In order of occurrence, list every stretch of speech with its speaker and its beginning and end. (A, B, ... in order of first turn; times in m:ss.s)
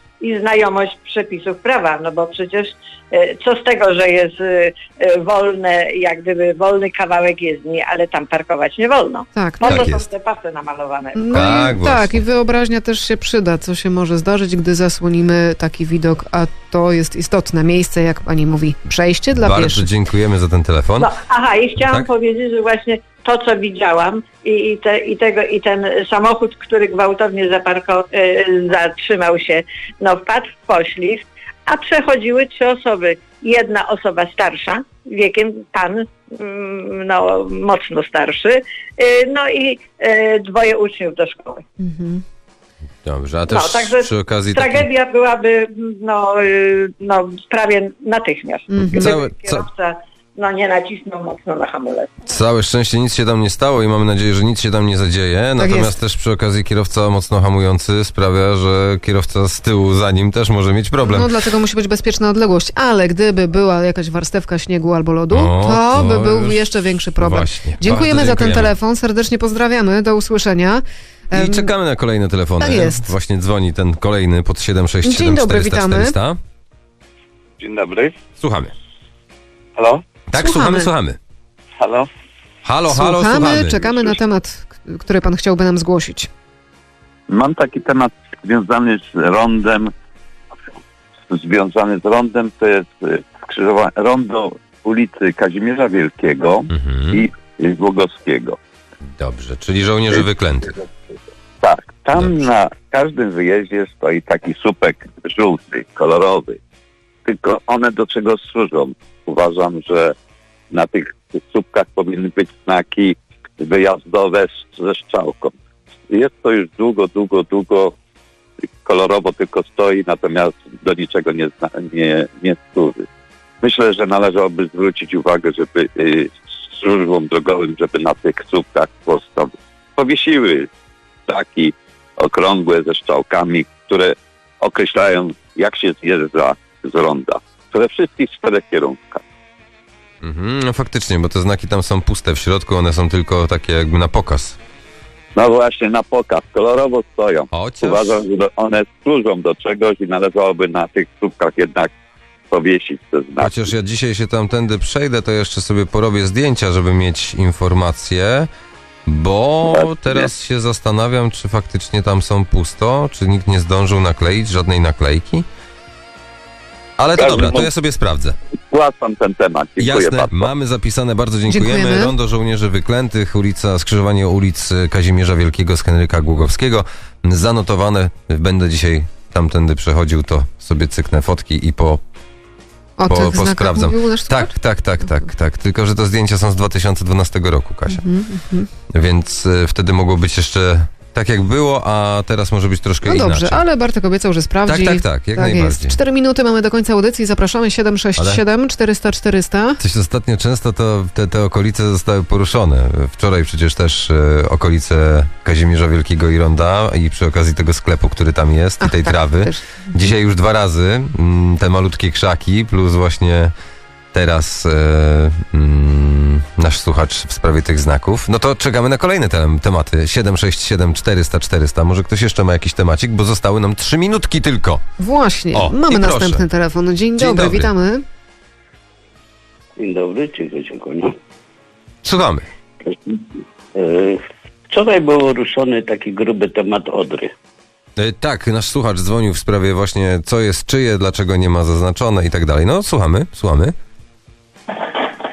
0:00.2-0:11.7 A
0:09.4-0:10.0 B
0:09.6-0:10.0 C
0:11.2-0:19.9 B
0:11.3-0:12.2 C
0:19.4-0:21.1 C
0:21.0-0:41.6 A
0:21.8-0:22.1 C
0:41.8-0:42.2 B
0:43.0-0:44.9 C
0:43.5-0:52.1 A
0:48.7-0:49.1 B
0:48.9-0:49.7 C
0:52.3-1:01.3 C
0:55.6-0:55.9 B
1:01.0-1:11.7 B
1:05.3-1:08.7 C
1:11.3-1:16.4 C
1:12.6-1:13.1 B
1:15.0-1:16.2 B
1:17.6-1:18.2 D
1:18.4-1:18.7 C
1:19.8-1:20.0 D
1:20.3-1:21.2 C
1:20.4-1:20.9 B
1:21.8-1:22.1 D
1:22.6-1:24.2 C
1:22.9-1:26.3 B
1:27.3-1:29.9 D
1:31.3-1:38.6 D
1:36.7-1:37.2 C
1:39.1-1:40.8 C
1:41.6-1:46.6 D
1:47.2-1:50.1 D
1:50.7-1:55.5 D
1:56.1-1:58.0 D
1:58.8-2:03.1 D
2:03.6-2:10.7 D
2:11.3-2:19.2 D
2:20.2-2:24.6 C
2:25.4-2:31.9 D
2:27.5-2:28.2 C
2:32.5-2:33.6 D
2:33.4-2:38.5 C
2:39.1-2:45.5 C
2:39.7-2:40.3 D
2:47.0-2:48.4 C
2:47.2-2:47.7 D
2:48.7-2:50.5 D
2:49.8-3:02.0 C
2:51.5-2:52.1 B
3:03.0-3:05.1 B
3:03.1-3:08.0 C
3:07.9-3:08.7 B
3:08.9-3:13.6 C
3:13.0-3:19.8 B
3:14.7-3:16.0 C
3:19.8-3:33.5 C
3:28.8-3:29.9 B
3:34.1-3:44.8 C
3:45.0-3:48.0 B
3:45.5-3:46.4 C
3:47.2-3:47.7 C
3:49.8-3:51.2 E
3:52.0-3:52.4 C
3:52.9-3:53.2 E
3:53.8-3:57.3 E
3:58.0-4:03.8 C